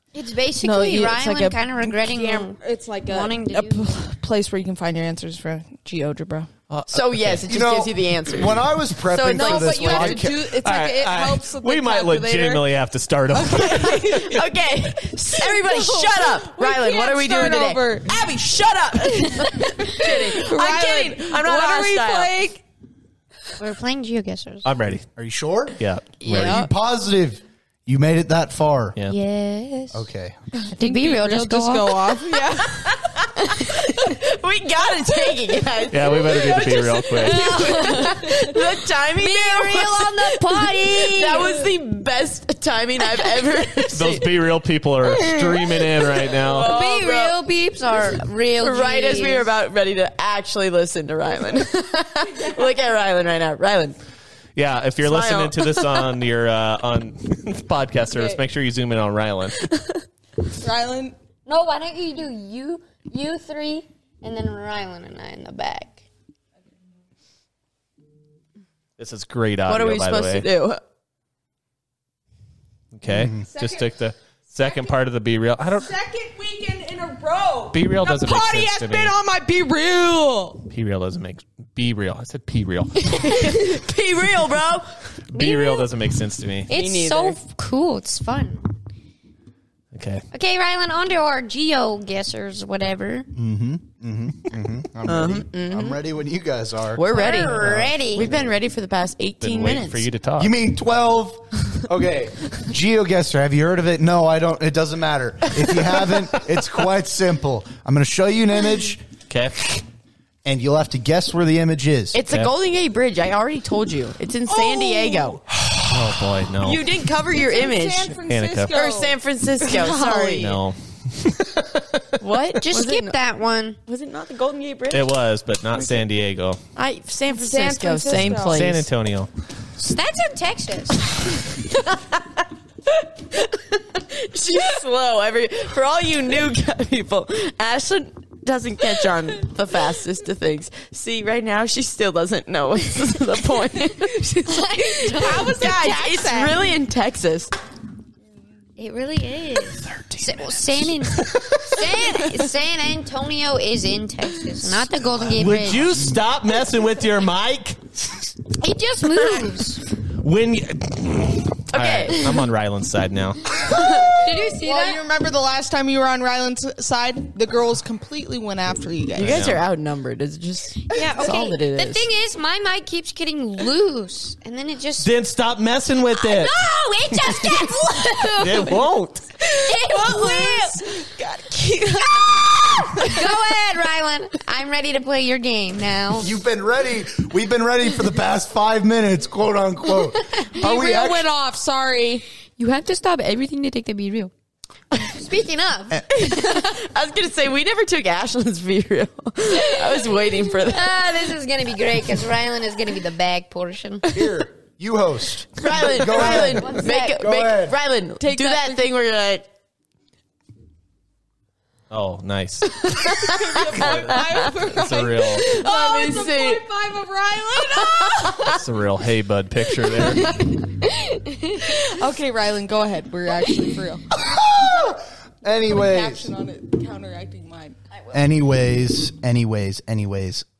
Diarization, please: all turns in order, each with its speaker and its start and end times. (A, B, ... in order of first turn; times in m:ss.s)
0:00.1-0:03.8 A
0:00.6-0:06.5 B
0:06.7-0:07.4 C
0:06.9-0:10.2 D
0:07.5-0:10.5 E
0:09.2-0:12.7 B
0:10.6-0:14.4 C
0:13.3-0:14.4 B
0:13.6-0:22.4 D
0:15.4-0:18.4 B
0:19.2-0:22.6 B
0:23.6-0:24.6 A
0:24.6-0:25.0 C
0:25.2-0:29.0 E
0:25.8-0:26.6 C
0:26.3-0:26.7 B
0:29.0-0:30.0 A
0:29.9-0:30.6 E
0:30.6-0:33.0 B
0:30.8-0:32.2 A
0:32.6-0:44.3 D
0:35.9-0:37.5 C
0:37.3-0:38.6 A
0:37.5-0:38.1 B
0:39.2-0:41.5 A
0:43.9-0:46.7 C
0:45.0-0:47.4 D
0:46.6-0:49.5 A
0:48.6-0:54.0 D
0:54.6-0:59.7 C
0:55.0-0:56.2 D
0:58.1-0:58.4 B
1:00.5-1:01.1 B
1:01.4-1:06.0 A
1:09.0-1:10.5 C
1:09.7-1:10.8 D
1:12.9-1:15.9 C
1:13.1-1:13.4 E
1:13.5-1:13.8 B
1:14.6-1:14.9 B
1:15.7-1:20.6 B
1:17.7-1:19.1 C
1:20.7-1:23.4 C
1:23.0-1:25.0 D
1:25.3-1:26.7 C
1:25.3-1:25.9 A
1:26.7-1:28.7 A
1:26.7-1:27.4 D
1:29.9-1:30.2 C
1:30.3-1:33.3 A
1:33.3-1:37.8 E
1:35.1-1:36.0 D
1:36.9-1:40.1 D
1:37.1-1:38.4 A
1:37.5-1:37.9 C
1:39.4-1:40.5 C
1:40.4-1:49.0 E
1:49.3-1:49.8 C
1:50.4-1:52.2 E
1:52.1-1:55.4 D
1:52.3-1:52.5 C
1:54.4-1:55.4 B
1:55.8-1:56.9 C
1:56.6-2:00.6 D
1:57.1-2:00.6 B
1:58.3-1:58.7 C
2:00.4-2:02.2 C
2:02.2-2:03.2 D
2:02.6-2:03.8 A
2:03.9-2:05.1 D
2:04.9-2:06.6 C
2:06.8-2:08.8 D
2:07.3-2:08.8 B
2:08.5-2:09.3 C
2:09.8-2:11.2 A
2:12.9-2:27.5 D
2:24.4-2:25.5 A
2:25.0-2:26.7 B
2:28.8-2:35.9 A
2:29.9-2:31.8 C
2:35.1-2:36.1 E
2:35.3-2:37.8 C
2:38.5-2:39.8 A
2:40.2-2:43.5 C
2:41.7-2:42.3 D
2:43.8-2:49.5 B
2:43.8-2:45.0 A
2:49.2-2:52.0 D
2:49.2-2:49.6 C
2:50.9-2:55.1 A
2:55.0-2:57.7 C
2:56.1-2:58.9 A
2:58.2-2:59.3 C
2:59.4-3:01.0 A
2:59.4-3:03.4 B
3:02.2-3:06.3 A
3:06.2-3:11.2 E
3:10.3-3:10.6 A
3:10.5-3:12.2 B
3:12.6-3:14.3 A
3:15.0-3:16.8 A
3:16.1-3:21.0 D
3:19.5-3:24.3 A
3:24.1-3:27.8 E
3:25.6-3:29.5 D
3:26.0-3:27.2 A
3:28.2-3:28.8 B
3:31.9-3:32.9 C
3:32.8-3:34.5 D
3:33.0-3:38.6 B
3:33.8-3:35.4 C
3:35.3-3:36.6 D
3:38.4-3:40.5 C
3:39.9-3:40.4 B
3:40.6-3:41.9 A
3:41.7-3:44.0 B
3:44.1-3:46.3 E
3:44.6-3:44.9 B
3:45.7-3:47.8 B
3:48.1-3:50.4 E